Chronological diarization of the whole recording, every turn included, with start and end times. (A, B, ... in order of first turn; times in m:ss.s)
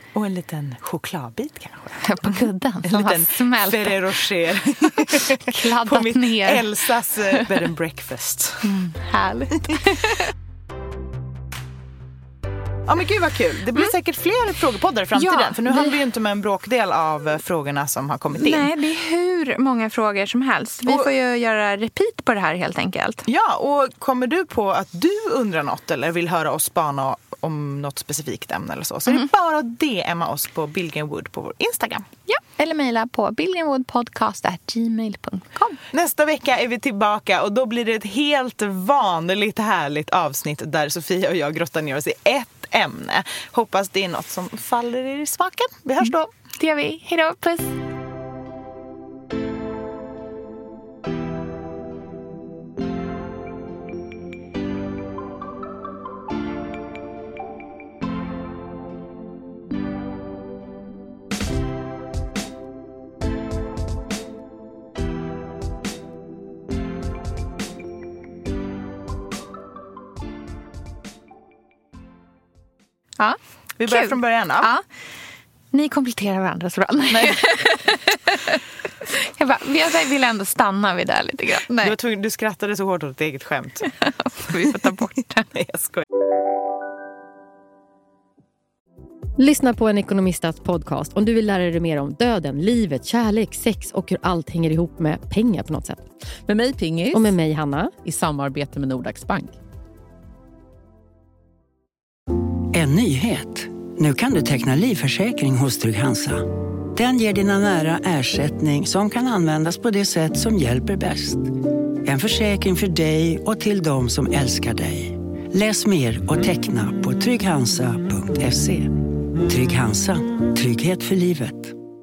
0:00.1-0:08.8 A
0:02.0-0:04.1 B
0:05.1-0:06.7 B
0:07.3-0:07.6 B
0:08.6-0:10.3 B
0:09.6-0:10.1 A
0:12.9-0:18.7 A
0:15.2-0:16.0 B
0:18.4-0:23.2 B
0:20.8-0:21.1 A
0:23.3-0:32.1 A
0:32.3-0:35.8 B
0:35.9-0:46.3 A
0:46.6-0:47.8 B
1:13.2-1:14.8 B
1:13.8-1:14.7 A
1:15.7-1:22.0 B
1:17.1-1:17.6 A
1:21.8-1:23.9 A
1:23.9-1:25.5 B
1:24.5-1:24.9 A
1:25.5-1:26.0 A
1:29.4-1:36.1 C
1:36.5-1:37.3 D
1:37.1-1:38.0 C
1:38.0-1:39.6 D
1:42.7-1:51.5 E
1:52.0-2:01.7 E